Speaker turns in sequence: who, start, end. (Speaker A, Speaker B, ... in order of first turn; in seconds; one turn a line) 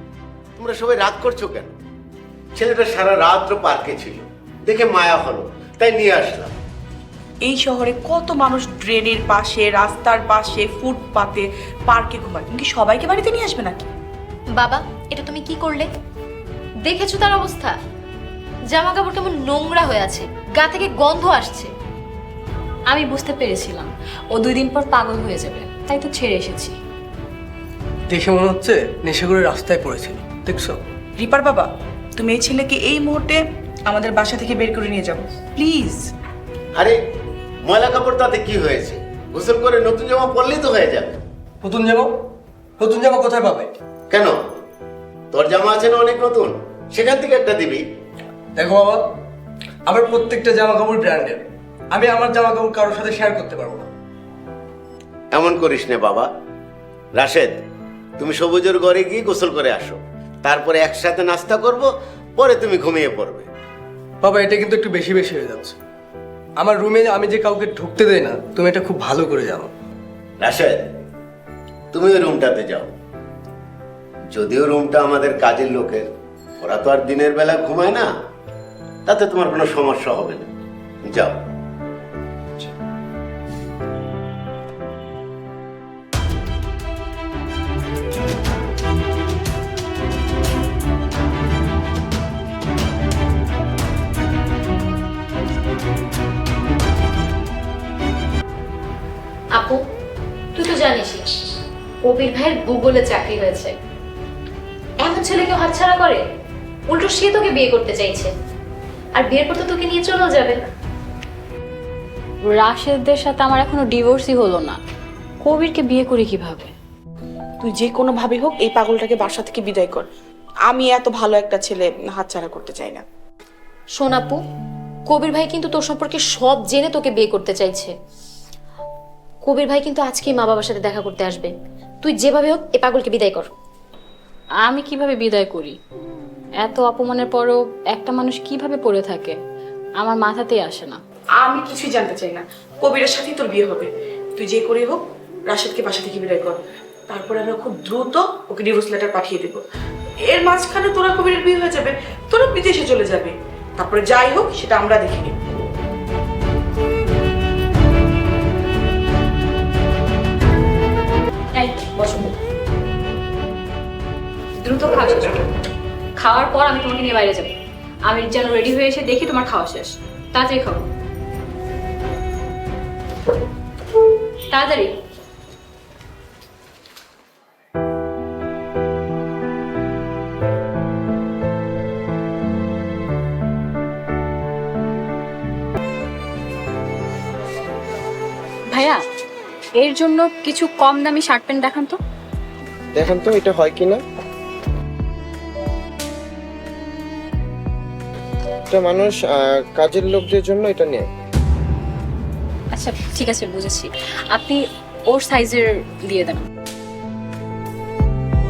Speaker A: 0.6-1.7
Speaker A: 2.6-6.5
Speaker B: 7.4-13.9
Speaker C: 14.6-15.9
Speaker C: 16.9-17.8
Speaker C: 18.7-21.7
Speaker D: 22.9-26.8
Speaker E: 28.1-30.8
Speaker B: 31.2-36.1
Speaker A: 37.7-41.2
Speaker E: 41.6-42.1
Speaker E: 42.8-43.7
Speaker A: 44.1-44.4
Speaker A: 45.3-47.8
Speaker E: 48.6-49.0
Speaker E: 49.9-53.9
Speaker A: 55.3-56.3
Speaker A: 57.2-57.6
Speaker A: 58.2-63.5
Speaker E: 64.2-65.8
Speaker E: 66.6-69.7
Speaker A: 70.4-70.8
Speaker A: 71.9-72.9
Speaker A: 74.3-76.1
Speaker A: 76.6-78.1
Speaker A: 79.1-80.5
Speaker A: 81.1-81.4
Speaker C: 100.6-101.2
Speaker C: 102.0-103.8
Speaker C: 105.0-106.2
Speaker C: 106.9-108.3
Speaker C: 109.2-110.7
Speaker D: 112.5-114.8
Speaker D: 115.4-116.7
Speaker B: 117.6-120.1
Speaker B: 120.7-123.0
Speaker C: 124.0-124.4
Speaker C: 125.1-127.9
Speaker C: 129.5-131.5
Speaker C: 132.0-133.5
Speaker D: 134.7-135.8
Speaker D: 136.6-139.4
Speaker D: 140.0-141.0
Speaker B: 141.4-149.6
Speaker B: 150.3-155.4
Speaker D: 161.5-162.3
Speaker D: 164.6-165.5
Speaker D: 166.2-167.5
Speaker D: 168.1-170.9
Speaker D: 174.5-174.9
Speaker D: 188.7-189.0
Speaker D: 189.8-192.0
Speaker F: 192.9-194.0
Speaker F: 198.7-201.1
Speaker D: 202.7-206.5